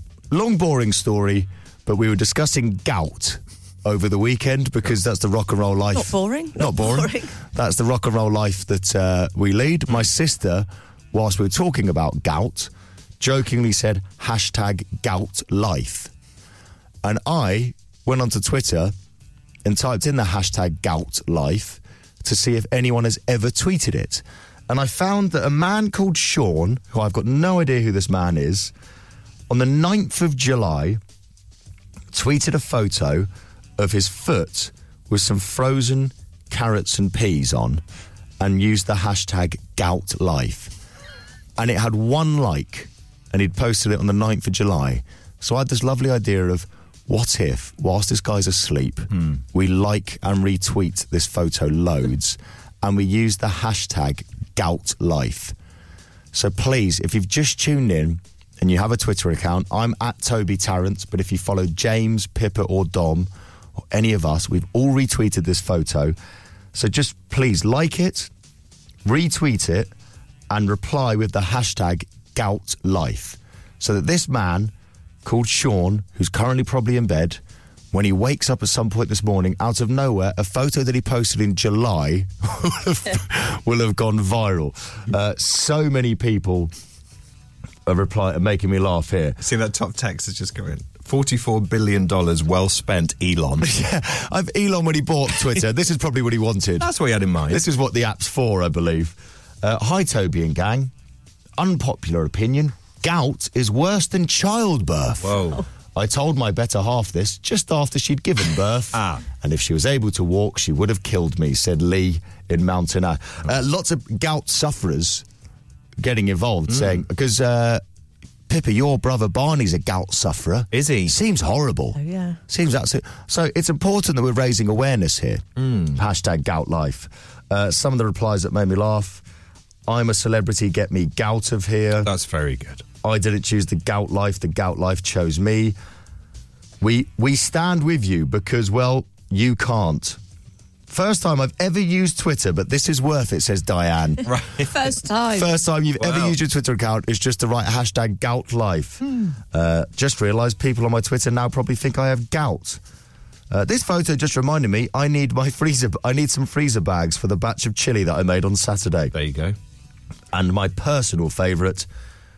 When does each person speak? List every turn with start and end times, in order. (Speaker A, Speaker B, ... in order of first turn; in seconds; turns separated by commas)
Speaker A: 0.3-16.1, Speaker B: 5.9-7.3, Speaker A: 17.0-18.9, Speaker A: 19.6-28.7, Speaker A: 29.5-31.0, Speaker A: 32.1-37.8, Speaker A: 38.4-40.7, Speaker A: 41.6-55.5, Speaker A: 56.3-63.3, Speaker A: 63.9-66.1, Speaker A: 66.7-68.3, Speaker A: 69.0-69.9, Speaker A: 70.5-74.7, Speaker A: 75.2-77.4, Speaker A: 77.9-86.7, Speaker A: 87.8-89.4, Speaker C: 89.4-93.7, Speaker A: 93.6-96.9, Speaker C: 96.8-97.6, Speaker A: 97.5-100.9, Speaker A: 101.6-105.4, Speaker C: 105.2-105.6, Speaker A: 105.9-115.2, Speaker C: 108.9-109.2, Speaker A: 116.0-117.8, Speaker C: 116.7-117.0, Speaker A: 118.5-129.2, Speaker C: 120.7-121.1, Speaker B: 122.0-122.4, Speaker C: 125.6-126.0, Speaker A: 129.9-132.1, Speaker C: 132.0-132.8, Speaker A: 133.0-135.7, Speaker A: 136.8-140.2, Speaker A: 140.9-144.3, Speaker C: 144.2-144.7, Speaker B: 144.7-145.5, Speaker A: 145.2-149.0, Speaker C: 146.0-146.4, Speaker A: 149.5-152.8, Speaker A: 153.5-159.1, Speaker C: 159.1-159.6, Speaker A: 160.3-161.9